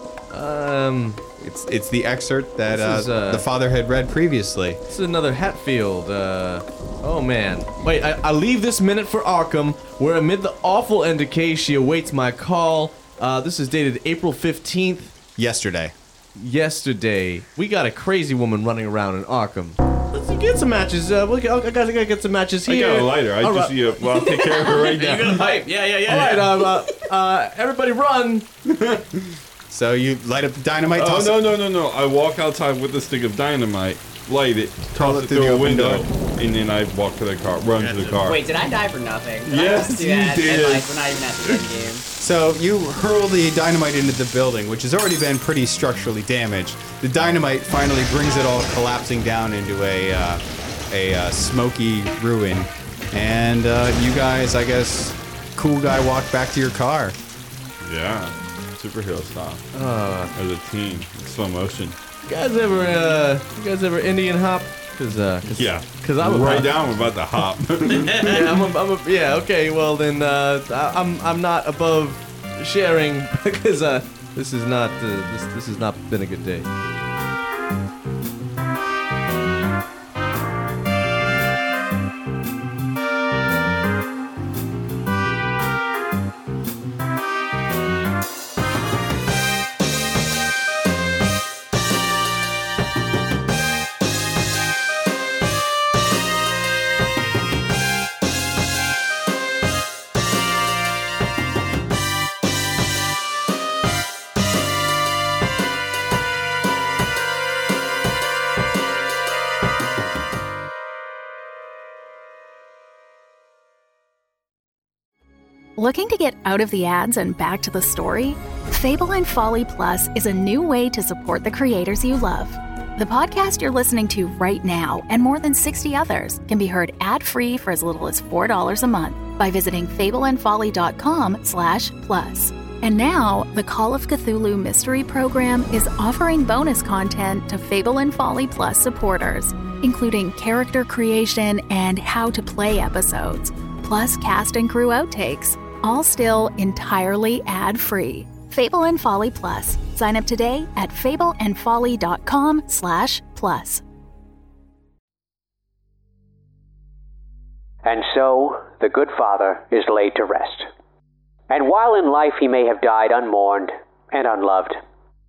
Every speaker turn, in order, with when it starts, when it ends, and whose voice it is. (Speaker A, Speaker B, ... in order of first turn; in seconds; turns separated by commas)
Speaker A: 0.3-1.2, Speaker B: 1.4-4.8, Speaker A: 2.7-3.5, Speaker A: 4.9-15.1, Speaker B: 15.4-15.9, Speaker A: 16.4-23.8, Speaker C: 22.7-25.7, Speaker D: 24.6-26.6, Speaker A: 26.1-28.5, Speaker B: 29.7-31.4, Speaker C: 31.0-38.4, Speaker B: 35.0-36.0, Speaker D: 37.7-38.3, Speaker E: 38.2-42.0, Speaker C: 39.5-41.6, Speaker B: 42.2-57.2, Speaker C: 57.8-59.6, Speaker A: 59.7-60.3, Speaker C: 60.4-62.0, Speaker A: 62.3-66.7, Speaker C: 65.5-68.5, Speaker A: 68.3-76.7, Speaker F: 115.8-153.8, Speaker G: 157.8-160.7, Speaker G: 161.5-164.8